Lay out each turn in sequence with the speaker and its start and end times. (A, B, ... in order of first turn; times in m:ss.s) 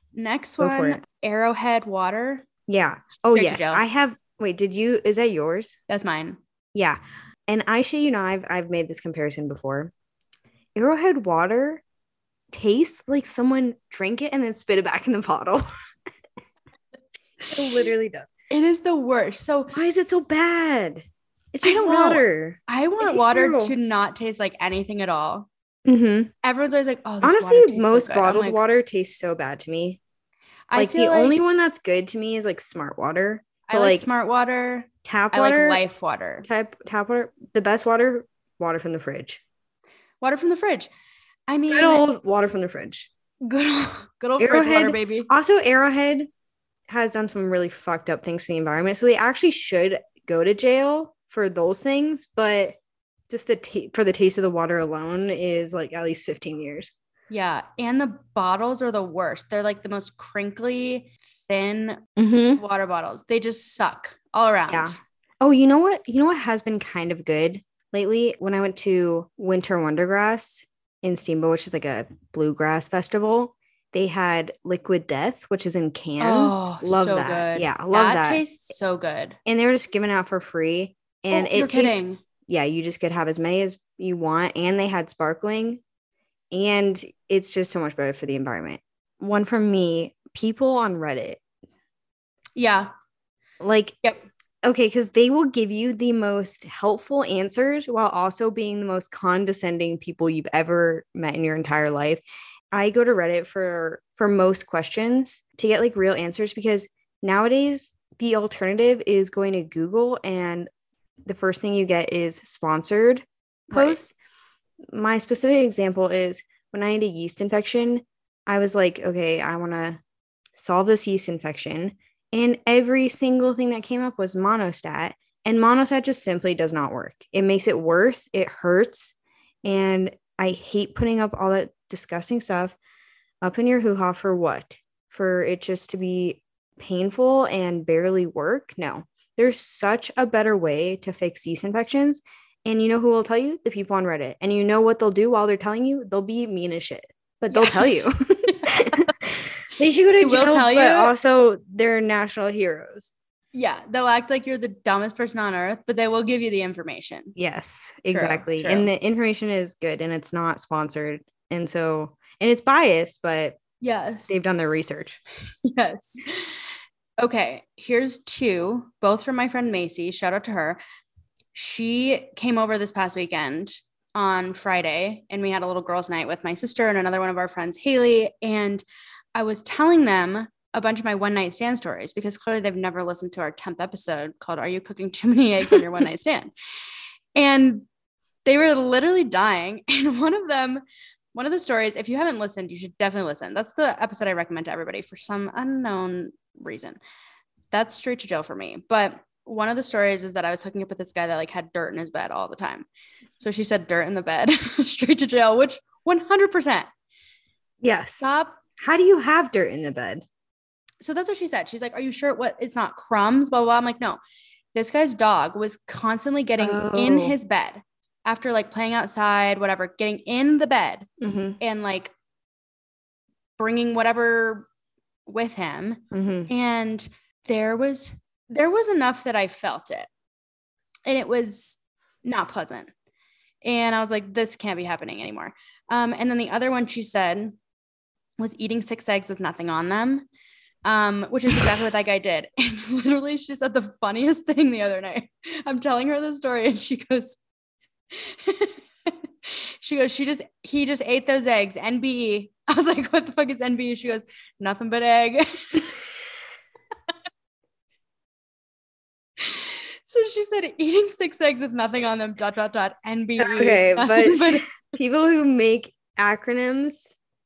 0:00.1-0:02.4 A
0:00.6-0:01.0 B
0:02.7-0:05.8 B
0:03.3-0:03.8 A
0:05.9-0:06.4 A
0:06.7-0:09.9 B
0:10.7-0:11.8 B
0:12.5-0:15.6 B
0:17.1-0:17.8 A
0:17.5-0:18.3 B
0:18.5-0:19.7 A
0:19.7-0:23.7 B
0:21.6-0:25.5 A
0:25.8-0:26.3 B
0:26.4-0:28.6 A
0:27.2-0:30.0 B
0:30.7-0:31.4 A
0:30.7-0:34.0 B
0:33.7-0:36.5 A
0:35.0-0:35.8 B
0:36.4-0:39.4 B
0:40.2-0:40.9 A
0:41.5-0:42.0 A
0:41.7-0:43.1 B
0:43.4-0:45.3 A
0:44.4-0:46.3 B
0:46.9-0:52.8 B
0:53.3-0:56.9 B
0:57.3-1:02.0 A
1:02.2-1:02.6 B
1:02.6-1:05.0 A
1:04.7-1:18.4 B
1:16.2-1:19.4 A
1:19.4-1:25.8 B
1:21.3-1:22.2 A
1:26.5-1:31.4 B
1:32.6-1:32.9 A
1:33.6-1:33.9 B
1:34.6-1:50.7 B
1:51.2-1:54.1 B
1:53.7-1:54.0 A
1:54.9-2:00.0 B
2:00.6-2:12.8 B
2:13.4-2:33.1 B
2:27.5-2:29.1 A
2:30.2-2:31.1 A
2:33.5-2:37.4 A
2:37.4-2:43.6 B
2:38.1-2:38.9 A
2:43.8-2:44.4 A
2:44.3-2:45.2 B
2:45.6-2:46.7 A
2:47.2-2:50.8 A
2:51.5-3:06.5 A
3:07.4-3:07.8 A
3:08.4-3:10.8 A
3:11.3-3:17.0 A
3:17.7-3:22.8 A
3:23.4-3:26.9 A
3:27.8-3:30.2 B
3:28.2-3:28.6 A
3:31.0-3:34.2 A
3:34.7-3:41.1 A
3:36.6-3:37.4 B
3:41.2-3:41.6 B
3:41.6-3:42.1 A
3:43.6-3:44.7 A
3:45.2-3:50.1 A
3:46.1-3:46.5 B
3:51.1-3:52.9 A
3:53.6-3:57.6 A
3:58.4-4:00.2 A
4:00.8-4:07.4 A
4:08.1-4:16.0 A
4:19.4-4:24.6 A
4:23.4-4:27.2 B